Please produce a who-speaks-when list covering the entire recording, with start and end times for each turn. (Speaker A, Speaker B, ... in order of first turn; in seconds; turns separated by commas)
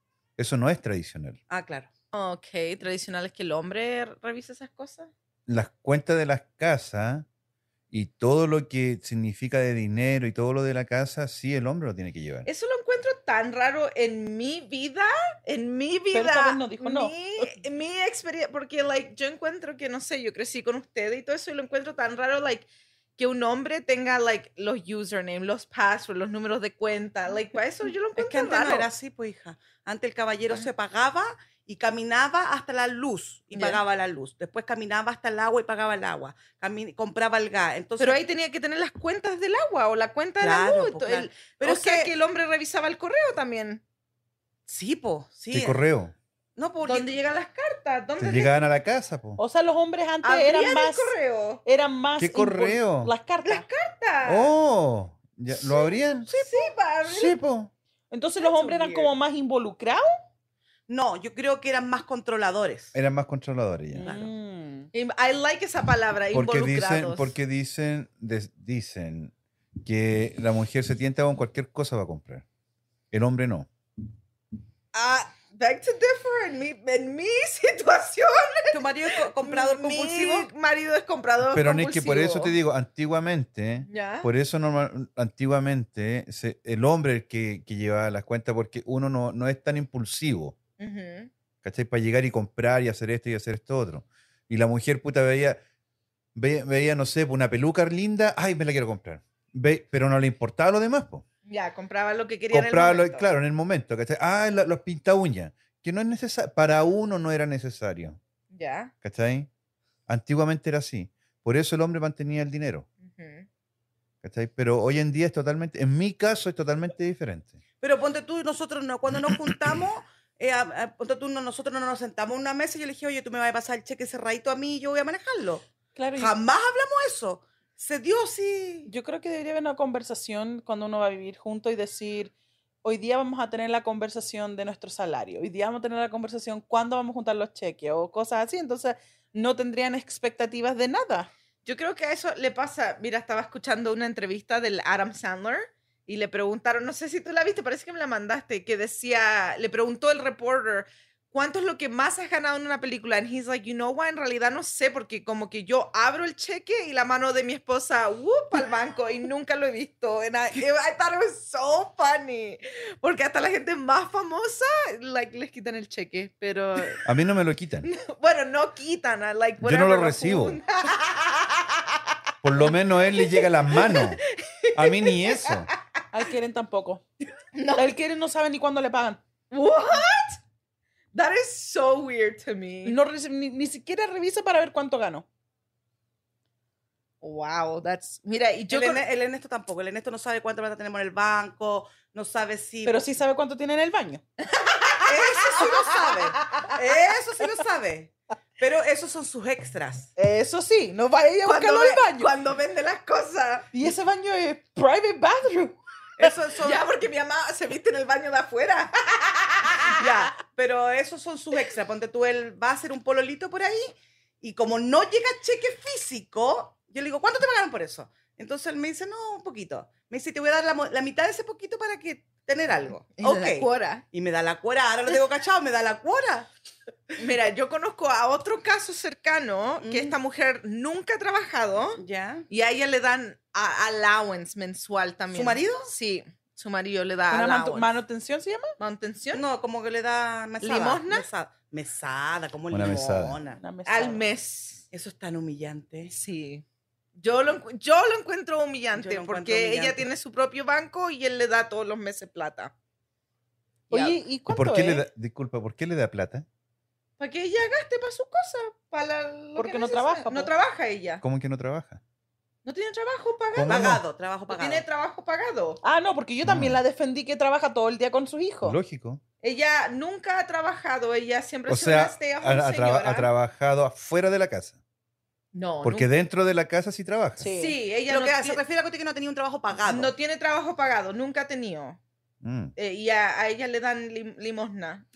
Speaker A: 0.4-1.4, Speaker B: 1.5-1.9, Speaker C: 2.1-5.1, Speaker A: 5.5-7.2, Speaker A: 7.9-12.5, Speaker C: 12.4-28.9, Speaker D: 16.1-17.1, Speaker B: 28.1-38.2, Speaker C: 33.5-33.8, Speaker C: 38.0-43.8, Speaker B: 40.4-42.1, Speaker B: 44.7-45.8, Speaker A: 45.5-46.1, Speaker B: 46.5-47.1, Speaker C: 46.8-48.6, Speaker A: 48.2-49.4, Speaker D: 49.4-51.1, Speaker C: 50.2-51.6, Speaker D: 51.6-53.6, Speaker A: 52.2-53.1, Speaker C: 53.4-54.5, Speaker A: 54.2-56.3, Speaker C: 55.7-57.4, Speaker B: 56.4-56.7, Speaker A: 57.0-57.7, Speaker D: 58.1-60.2, Speaker C: 58.4-59.1, Speaker B: 60.9-62.9, Speaker A: 62.9-64.1, Speaker D: 63.9-64.9, Speaker B: 64.0-64.3, Speaker C: 64.9-67.3, Speaker A: 66.3-69.3, Speaker A: 69.8-72.4, Speaker A: 73.1-73.7, Speaker C: 74.9-82.5, Speaker B: 78.7-80.5, Speaker A: 81.5-90.5, Speaker C: 83.9-84.3, Speaker C: 90.8-91.3, Speaker A: 91.6-95.6, Speaker A: 96.3-101.2, Speaker C: 101.5-103.3, Speaker A: 102.5-108.2, Speaker C: 108.5-108.9, Speaker A: 109.0-109.5, Speaker A: 110.1-112.8, Speaker C: 113.0-113.5, Speaker A: 114.2-117.6, Speaker B: 117.8-125.7, Speaker D: 125.9-126.3, Speaker B: 126.2-128.9, Speaker D: 128.9-132.3, Speaker D: 132.8-141.3, Speaker C: 141.6-167.0, Speaker A: 167.0-167.9, Speaker C: 167.8-171.9, Speaker A: 169.6-170.6, Speaker A: 172.4-174.2, Speaker C: 173.7-175.8, Speaker A: 174.7-175.7, Speaker D: 176.1-177.0, Speaker C: 177.5-177.9, Speaker D: 177.8-179.2, Speaker C: 179.5-180.4, Speaker C: 181.1-182.9, Speaker D: 182.8-185.2, Speaker C: 187.2-189.0, Speaker B: 188.7-193.0, Speaker D: 192.8-194.2, Speaker C: 194.5-195.1, Speaker B: 195.0-200.1, Speaker D: 195.9-196.4, Speaker D: 200.2-202.3, Speaker C: 201.4-203.7, Speaker D: 203.7-206.3, Speaker B: 206.2-206.9, Speaker C: 206.6-210.1, Speaker B: 210.0-226.5, Speaker C: 223.2-224.0, Speaker C: 227.2-237.9, Speaker B: 229.8-230.1, Speaker B: 232.0-232.5, Speaker B: 235.3-235.9, Speaker D: 237.3-238.7, Speaker C: 238.8-239.4, Speaker B: 239.3-243.6, Speaker C: 240.6-241.3, Speaker A: 242.7-243.4, Speaker D: 243.6-244.2, Speaker C: 243.8-244.8, Speaker B: 244.9-246.1, Speaker C: 246.1-246.6, Speaker C: 247.2-252.7, Speaker B: 248.9-250.1, Speaker D: 253.9-255.0, Speaker C: 253.9-254.2, Speaker A: 254.5-256.4, Speaker C: 257.2-261.2, Speaker D: 259.6-260.5, Speaker A: 261.2-262.0, Speaker C: 262.6-263.9, Speaker A: 263.5-264.0, Speaker B: 263.7-264.8, Speaker C: 264.5-265.8, Speaker D: 265.8-268.8, Speaker A: 266.4-266.8, Speaker A: 268.6-269.2, Speaker C: 269.4-273.3, Speaker A: 271.7-274.8, Speaker C: 275.5-276.1, Speaker A: 275.8-277.5, Speaker D: 277.4-277.8, Speaker C: 277.5-278.6, Speaker B: 278.1-280.1, Speaker C: 279.8-282.0, Speaker A: 282.4-282.7, Speaker C: 282.8-285.1